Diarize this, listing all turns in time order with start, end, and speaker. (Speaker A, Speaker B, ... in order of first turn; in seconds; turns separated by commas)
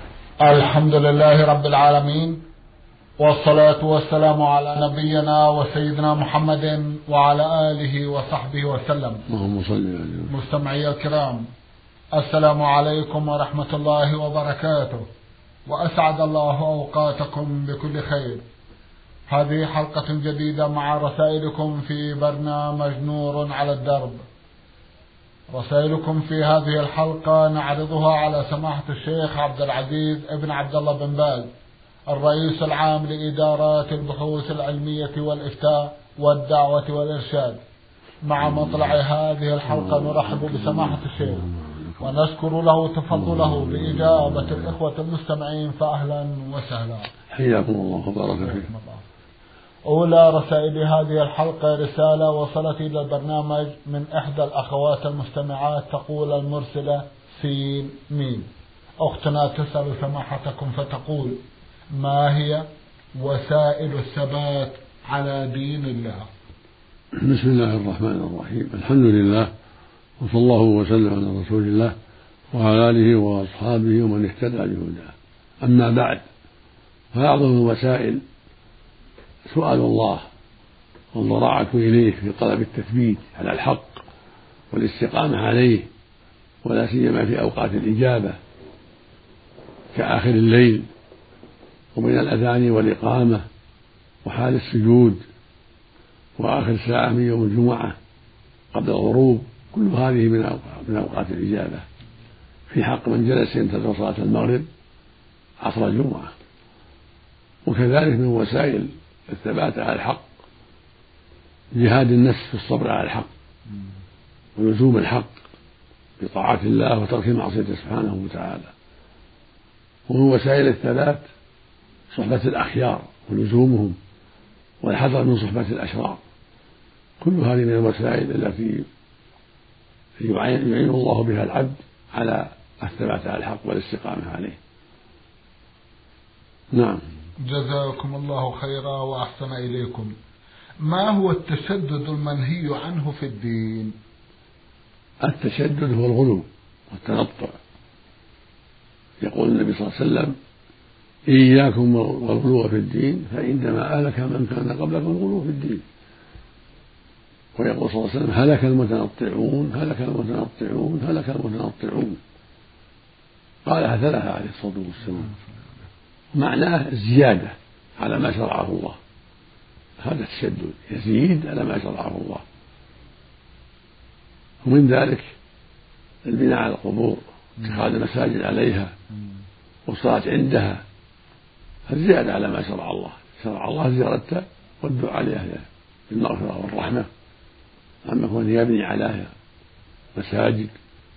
Speaker A: 0.4-2.4, Speaker A: 3.2-9.2, Speaker B: 9.3-10.3, Speaker A: 10.3-11.5, Speaker A: 12.1-15.1, Speaker A: 15.7-18.4, Speaker A: 19.3-24.2, Speaker A: 25.5-31.5, Speaker A: 32.1-37.6, Speaker A: 38.2-47.1, Speaker B: 38.4-38.9, Speaker B: 39.7-42.0, Speaker B: 43.1-44.4, Speaker B: 47.3-48.7, Speaker A: 48.4-49.0, Speaker A: 49.9-58.5, Speaker A: 59.0-61.4, Speaker A: 61.9-66.3, Speaker B: 67.1-69.5, Speaker B: 70.2-71.9, Speaker B: 72.5-76.2, Speaker B: 77.1-78.2, Speaker B: 79.5-80.3, Speaker B: 81.1-84.0, Speaker B: 84.7-85.9, Speaker B: 86.6-88.4, Speaker B: 89.9-90.9, Speaker B: 92.0-93.4, Speaker B: 94.2-95.2, Speaker B: 96.4-98.0, Speaker B: 98.7-101.8, Speaker B: 102.7-104.7, Speaker B: 105.6-106.3, Speaker B: 107.6-110.2, Speaker B: 111.7-113.3, Speaker B: 114.6-115.4, Speaker B: 116.2-118.7, Speaker B: 120.1-121.2, Speaker B: 122.1-124.0, Speaker B: 124.8-126.2, Speaker B: 127.2-128.9, Speaker B: 130.2-134.6, Speaker B: 136.7-137.0, Speaker A: 137.4-140.1, Speaker A: 140.8-143.9, Speaker B: 145.2-147.6, Speaker B: 149.2-150.3, Speaker B: 151.3-155.8, Speaker B: 157.6-162.2, Speaker B: 163.6-165.3, Speaker A: 165.2-165.6, Speaker B: 166.3-169.0, Speaker B: 170.0-172.4, Speaker B: 174.6-175.3, Speaker B: 176.2-178.9, Speaker B: 179.9-180.8, Speaker B: 181.9-187.1, Speaker B: 188.1-189.3, Speaker B: 190.1-190.7